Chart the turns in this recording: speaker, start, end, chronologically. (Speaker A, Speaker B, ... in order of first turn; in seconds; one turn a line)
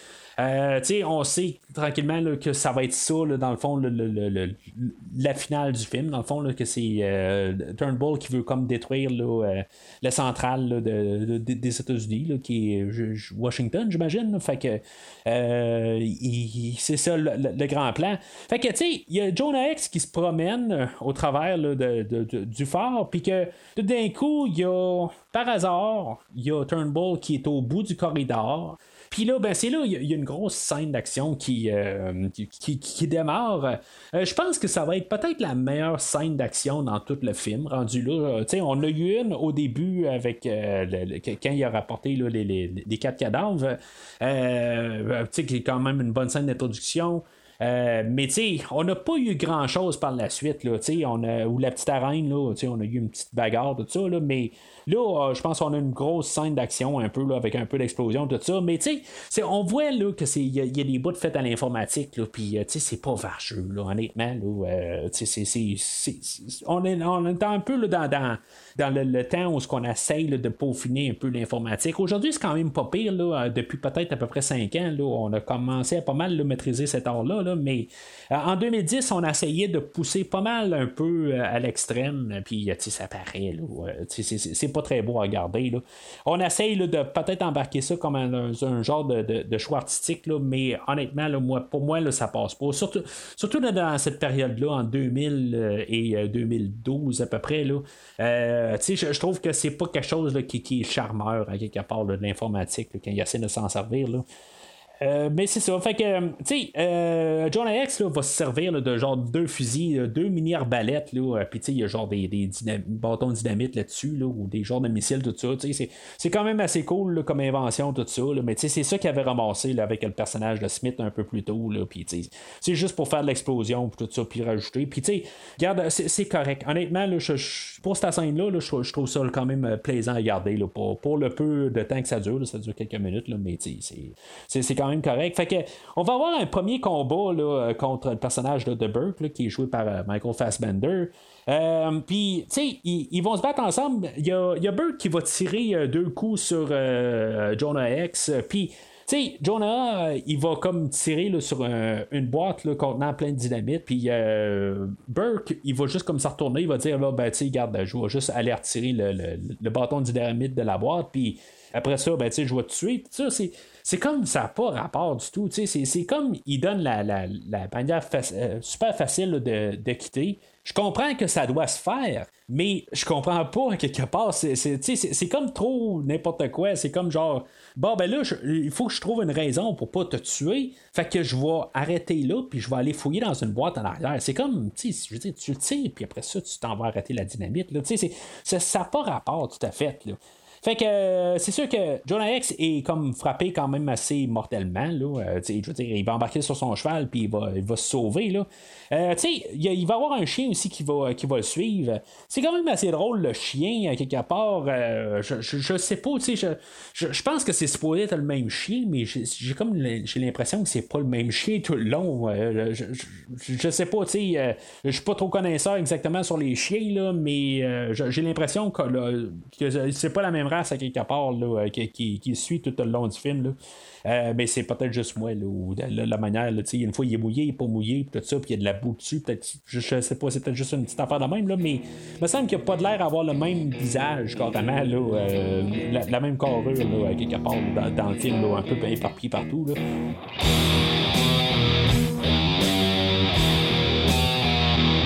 Speaker A: 0.4-104.2
Speaker A: 105.0-239.8